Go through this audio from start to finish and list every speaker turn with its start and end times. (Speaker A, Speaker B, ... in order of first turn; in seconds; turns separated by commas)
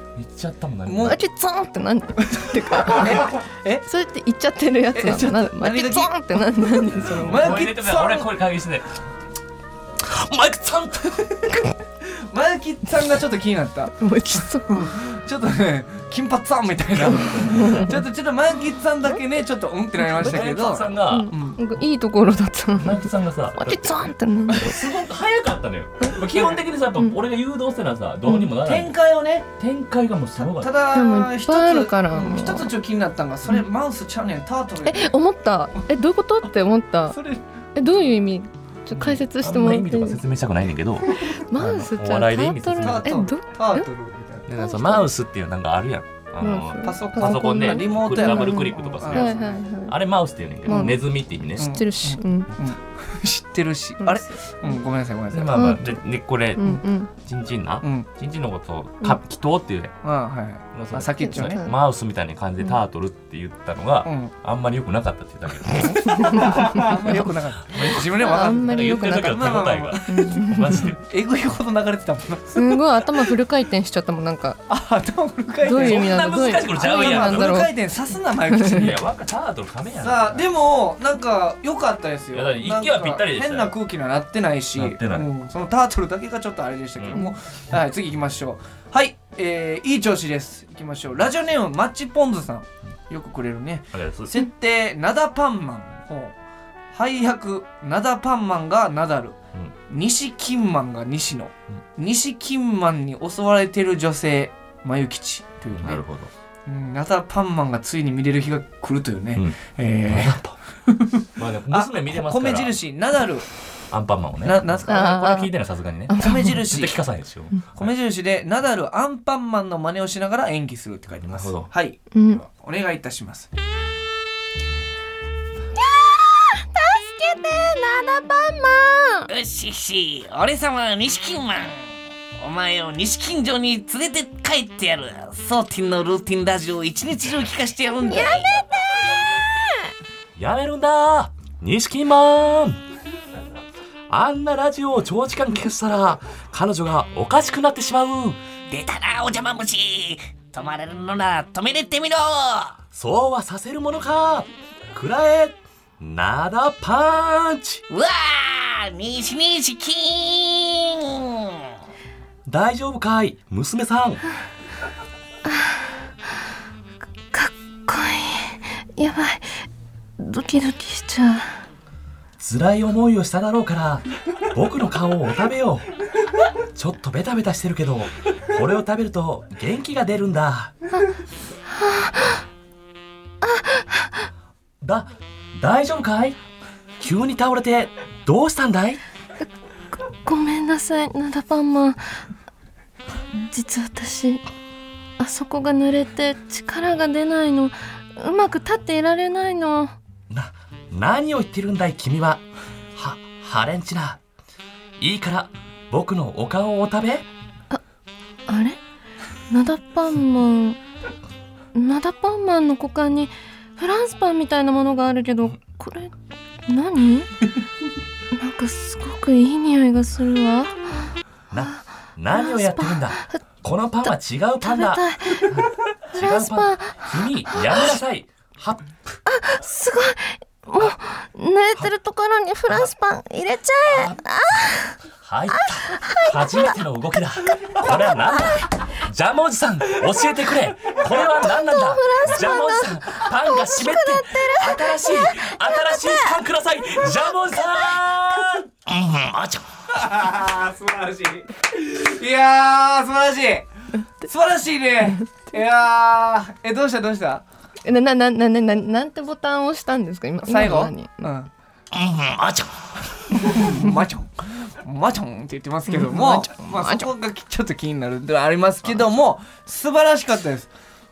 Speaker A: 0.1-1.2, Speaker B: 0.8-1.2, Speaker C: 1.0-3.3, Speaker B: 2.3-3.8, Speaker C: 3.8-7.6, Speaker B: 4.9-6.1, Speaker A: 6.9-9.0, Speaker B: 7.1-8.3, Speaker A: 10.0-11.6, Speaker B: 12.0-14.0, Speaker C: 14.0-14.9, Speaker B: 14.7-21.6, Speaker A: 17.0-17.8, Speaker C: 17.4-18.0, Speaker C: 20.0-24.8, Speaker A: 20.1-21.3, Speaker A: 22.8-28.9, Speaker B: 28.5-29.5, Speaker A: 29.6-30.7, Speaker B: 30.4-35.1, Speaker C: 30.9-32.7, Speaker C: 34.8-37.2, Speaker B: 37.1-37.4, Speaker C: 37.7-40.2, Speaker A: 39.0-43.1, Speaker C: 41.1-43.9, Speaker B: 42.8-44.5, Speaker A: 44.5-51.8, Speaker C: 44.6-45.1, Speaker C: 46.4-50.0, Speaker B: 46.8-49.6, Speaker C: 50.6-51.0, Speaker B: 50.7-51.0, Speaker C: 51.5-52.5, Speaker B: 51.6-55.6, Speaker C: 54.0-54.8, Speaker A: 55.3-59.9, Speaker C: 55.5-56.0, Speaker C: 56.5-57.1, Speaker B: 60.0-61.6, Speaker A: 60.7-71.0, Speaker C: 61.1-61.8, Speaker B: 64.0-64.3, Speaker C: 66.0-66.9, Speaker B: 66.4-73.2, Speaker C: 68.2-70.9, Speaker C: 72.5-74.6, Speaker B: 74.7-76.2, Speaker C: 75.6-77.7, Speaker A: 75.7-77.7, Speaker B: 76.7-79.0, Speaker A: 78.6-80.5, Speaker B: 80.0-96.3, Speaker A: 82.3-83.8, Speaker A: 84.7-85.3, Speaker A: 87.0-87.2, Speaker A: 93.9-94.4, Speaker B: 96.9-106.0, Speaker A: 105.7-106.3, Speaker B: 106.7-113.5, Speaker A: 109.3-110.6, Speaker A: 111.3-112.8, Speaker A: 113.9-117.9, Speaker B: 114.4-115.1, Speaker C: 114.9-115.5, Speaker C: 116.1-116.6, Speaker B: 116.2-117.0, Speaker B: 117.7-123.5, Speaker A: 121.2-121.7, Speaker C: 122.1-122.4, Speaker C: 125.8-129.3, Speaker B: 129.3-138.6, Speaker C: 138.1-139.8, Speaker A: 140.3-142.8, Speaker A: 144.1-148.4, Speaker B: 148.7-152.8, Speaker A: 152.9-157.8, Speaker B: 157.9-161.7, Speaker A: 162.4-164.2, Speaker C: 165.5-165.8, Speaker C: 167.3-169.6, Speaker C: 170.2-171.6, Speaker A: 172.4-175.9, Speaker A: 176.7-180.7, Speaker C: 181.7-182.4, Speaker C: 183.4-184.2, Speaker A: 184.8-186.4, Speaker A: 187.0-189.0, Speaker C: 190.0-192.0, Speaker C: 193.4-194.4, Speaker C: 195.2-199.9, Speaker A: 200.3-204.2, Speaker A: 205.0-207.3, Speaker C: 208.5-208.8, Speaker C: 209.5-210.8, Speaker C: 211.7-216.1, Speaker C: 216.7-217.3, Speaker C: 218.3-221.8, Speaker A: 221.5-229.2, Speaker C: 222.3-223.4, Speaker C: 224.0-225.6, Speaker C: 226.1-227.9, Speaker C: 229.2-235.0, Speaker A: 233.8-234.2, Speaker A: 235.2-249.9, Speaker C: 235.6-236.7, Speaker C: 241.3-246.3, Speaker B: 249.9-253.7, Speaker B: 254.2-257.4, Speaker C: 257.8-261.3, Speaker B: 260.4-261.5, Speaker A: 261.9-263.6, Speaker B: 263.4-270.7, Speaker C: 265.9-267.1